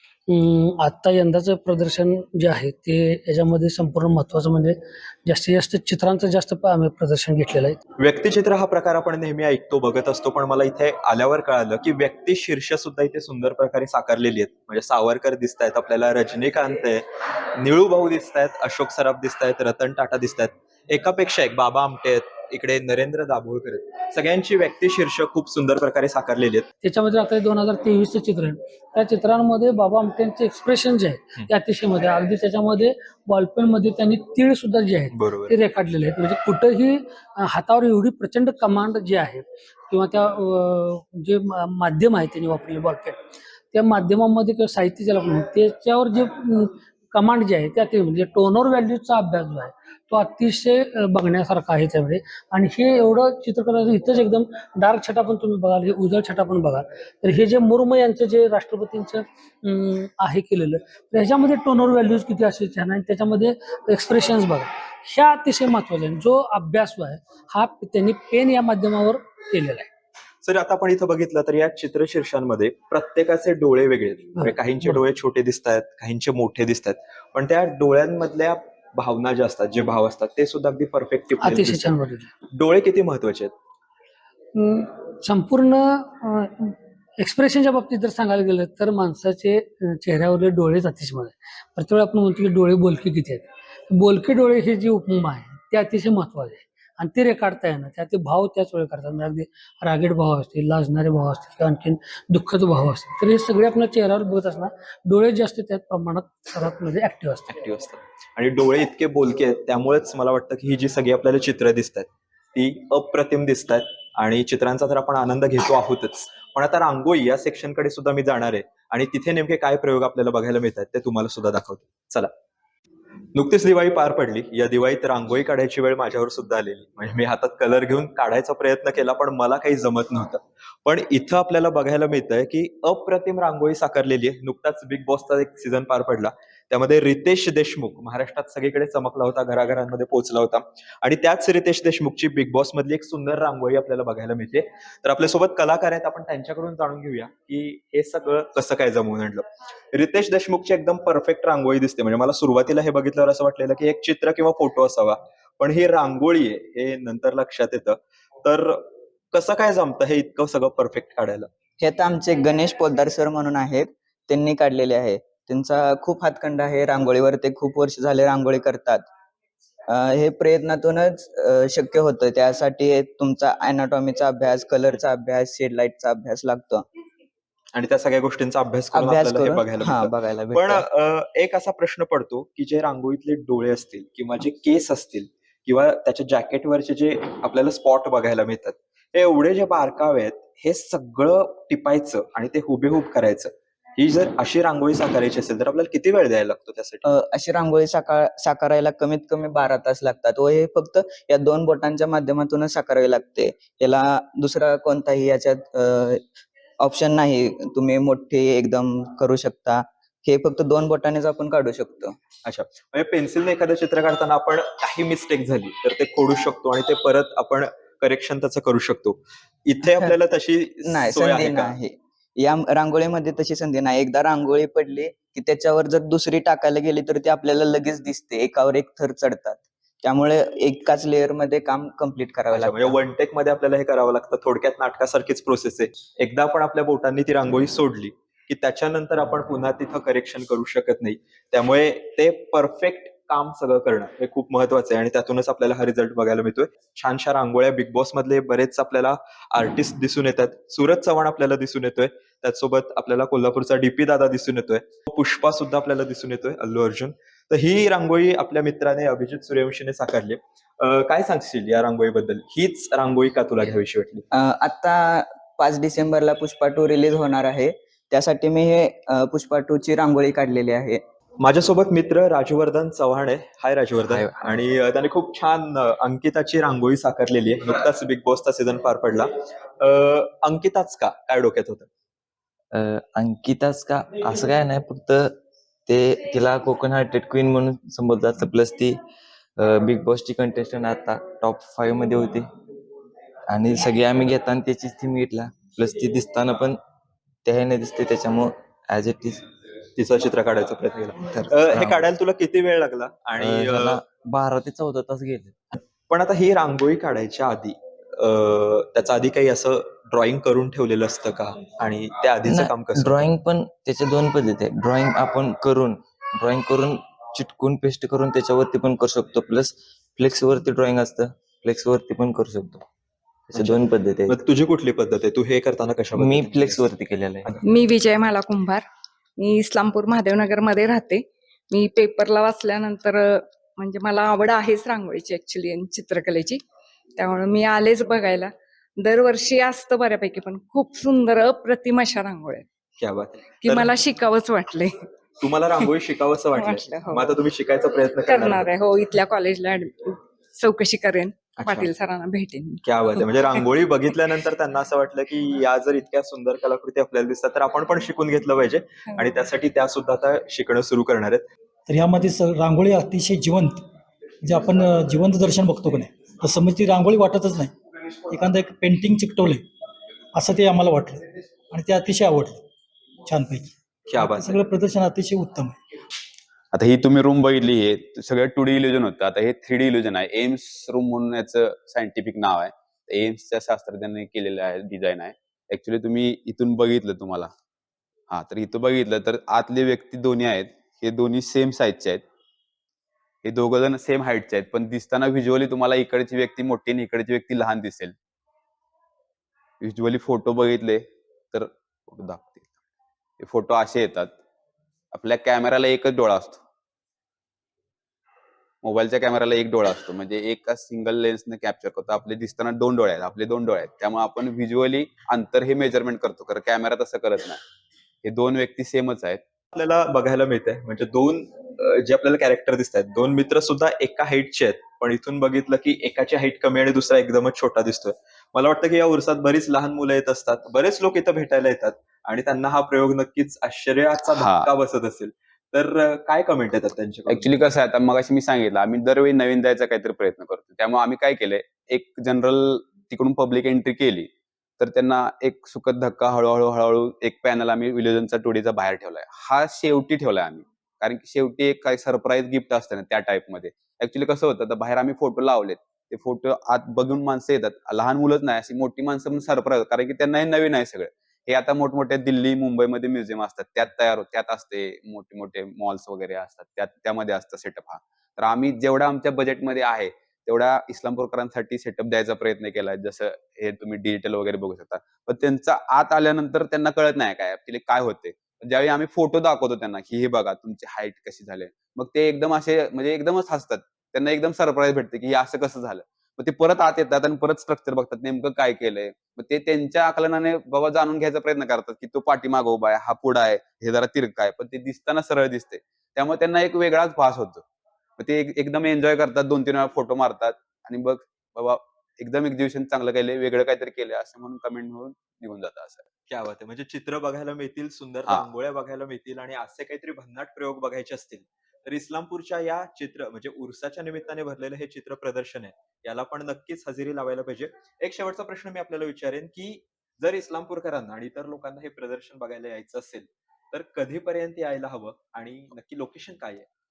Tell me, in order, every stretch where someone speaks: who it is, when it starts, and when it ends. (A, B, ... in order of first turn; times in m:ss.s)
0:00.3-0:07.8 A
0:08.0-0:26.7 B
0:26.8-0:43.2 A
0:35.1-0:35.6 B
0:43.7-1:09.9 A
1:10.4-1:21.9 B
1:21.4-1:22.3 A
1:22.5-1:23.5 B
1:24.6-1:47.6 A
1:47.5-2:02.3 B
2:03.3-2:41.5 B
2:41.8-2:49.0 C
2:49.9-2:56.8 C
2:57.7-3:17.1 B
2:58.9-3:00.8 C
3:17.0-3:26.2 C
3:26.8-3:32.2 C
3:32.4-3:41.8 B
3:39.9-3:40.2 C
3:40.8-3:53.0 C
3:52.5-4:24.2 B
4:24.3-4:31.0 C
4:31.4-4:41.9 B
4:42.7-4:49.0 D
4:49.6-4:52.5 D
4:53.5-4:56.8 D
4:57.4-4:59.4 D
5:00.0-5:04.0 B
5:01.3-5:02.0 D
5:03.4-5:05.6 D
5:05.7-5:13.4 B
5:12.5-5:22.8 D
5:23.5-5:24.4 D
5:23.5-5:27.6 B
5:26.2-5:27.6 D
5:27.6-5:28.8 E
5:29.4-5:31.2 E
5:31.7-5:33.3 E
5:33.8-5:36.6 E
5:37.2-5:38.5 E
5:39.0-5:42.6 E
5:43.0-5:44.0 B
5:43.6-5:44.9 E
5:45.4-5:48.7 B
5:46.5-5:47.2 E
5:48.3-5:52.8 E
5:51.6-5:51.9 B
5:52.8-6:01.4 B
6:01.9-6:03.8 F
6:04.4-6:07.7 F
6:08.3-6:09.7 F
6:10.3-6:12.6 F
6:13.3-6:15.8 F
6:14.1-6:14.6 B
6:16.7-6:27.5 G
6:28.3-6:32.2 G
6:33.4-6:38.2 G
6:39.8-6:42.7 G
6:43.4-6:44.4 G
6:45.1-6:46.6 G
6:48.8-6:57.6 G
6:58.2-6:59.4 G
6:59.7-7:17.5 B
7:14.3-7:14.7 G
7:17.3-8:17.6 G
8:18.2-8:26.0 G
8:26.3-8:46.7 B